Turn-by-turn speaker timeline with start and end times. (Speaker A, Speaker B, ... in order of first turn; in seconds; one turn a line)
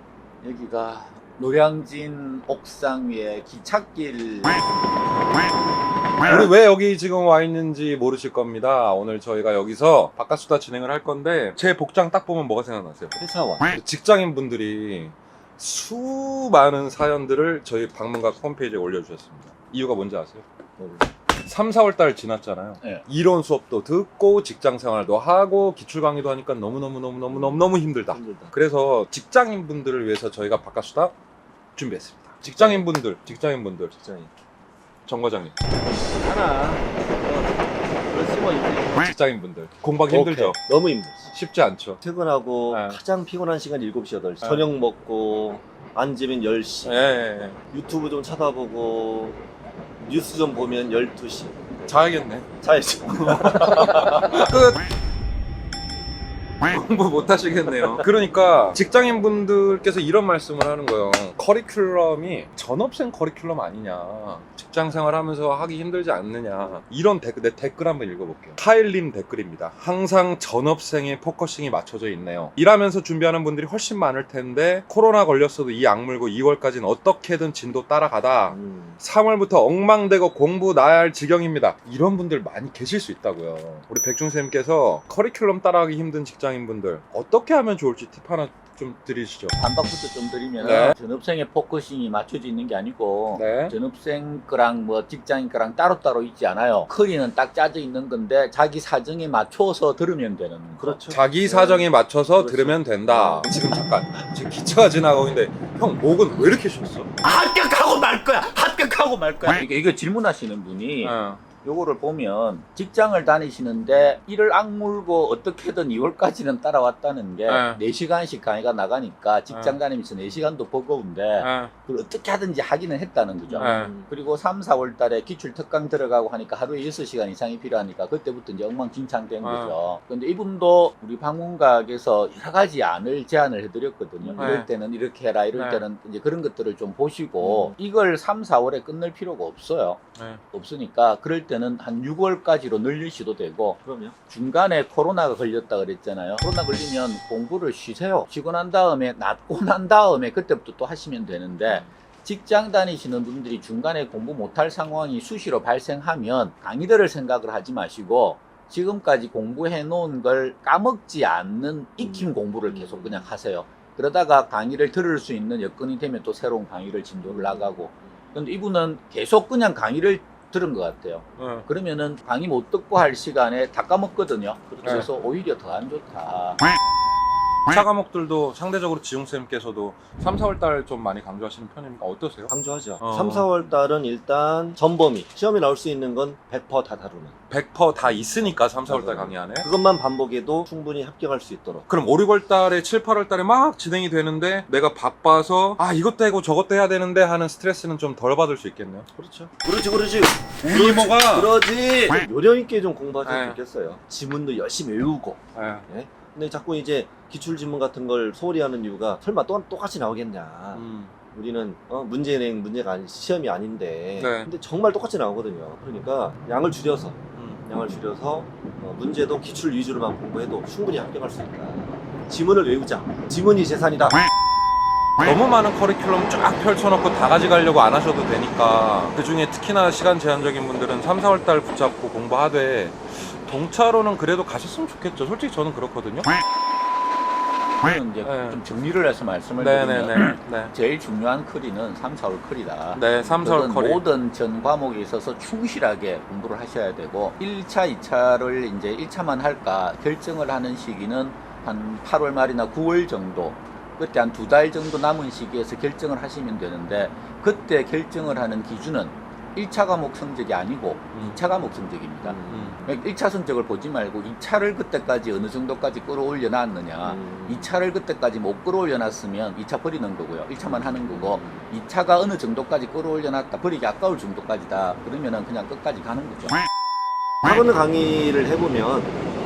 Speaker A: 0.4-4.6
Speaker B: 6.2-13.2
Speaker C: 13.2-13.7
Speaker B: 13.7-20.4
Speaker C: 20.8-21.1
Speaker B: 21.4-31.1
Speaker C: 27.3-28.5
Speaker B: 31.8-33.9
Speaker C: 32.6-32.9
Speaker C: 34.0-34.3
Speaker B: 35.1-35.6
Speaker C: 36.1-39.0
Speaker B: 39.0-40.6
Speaker C: 40.1-41.3
Speaker B: 41.3-42.0
Speaker C: 42.0-47.0
Speaker B: 42.7-43.0
Speaker B: 46.8-47.6
Speaker C: 47.7-49.4
Speaker C: 50.0-51.9
Speaker B: 51.9-52.5
Speaker C: 52.6-54.5
Speaker B: 53.1-54.8
Speaker B: 56.6-89.6
Speaker C: 57.7-58.0
Speaker C: 78.5-79.0
Speaker A: 89.5-101.0
Speaker B: 90.6-91.0
Speaker B: 93.3-93.7
Speaker C: 100.8-103.6
Speaker B: 101.1-107.1
Speaker A: 107.2-176.6
Speaker B: 111.0-111.4
Speaker B: 117.5-117.8
Speaker B: 119.5-119.8
Speaker B: 121.4-121.7
Speaker C: 123.5-124.1
Speaker B: 123.6-123.9
Speaker B: 129.4-129.7
Speaker C: 134.2-134.6
Speaker B: 134.4-134.7
Speaker B: 135.5-135.8
Speaker C: 137.4-137.8
Speaker C: 143.8-144.2
Speaker C: 162.0-163.3
Speaker C: 167.2-168.1
Speaker B: 171.4-171.7
Speaker C: 174.8-175.1
Speaker B: 177.7-183.5
Speaker C: 182.5-187.3
Speaker B: 187.5-189.7
Speaker C: 188.0-191.8
Speaker B: 191.9-199.1
Speaker C: 199.2-224.2
Speaker B: 200.6-201.5
Speaker B: 203.2-203.6
Speaker B: 205.5-205.8
Speaker B: 210.7-211.1
Speaker B: 214.2-214.5
Speaker B: 217.3-217.6
Speaker B: 225.2-236.3
Speaker A: 237.8-276.6
Speaker B: 238.2-238.6
Speaker B: 239.6-240.7
Speaker B: 242.9-244.0
Speaker C: 262.2-262.9
Speaker B: 262.5-262.8
Speaker C: 267.0-267.8
Speaker C: 270.7-271.7
Speaker C: 277.4-279.1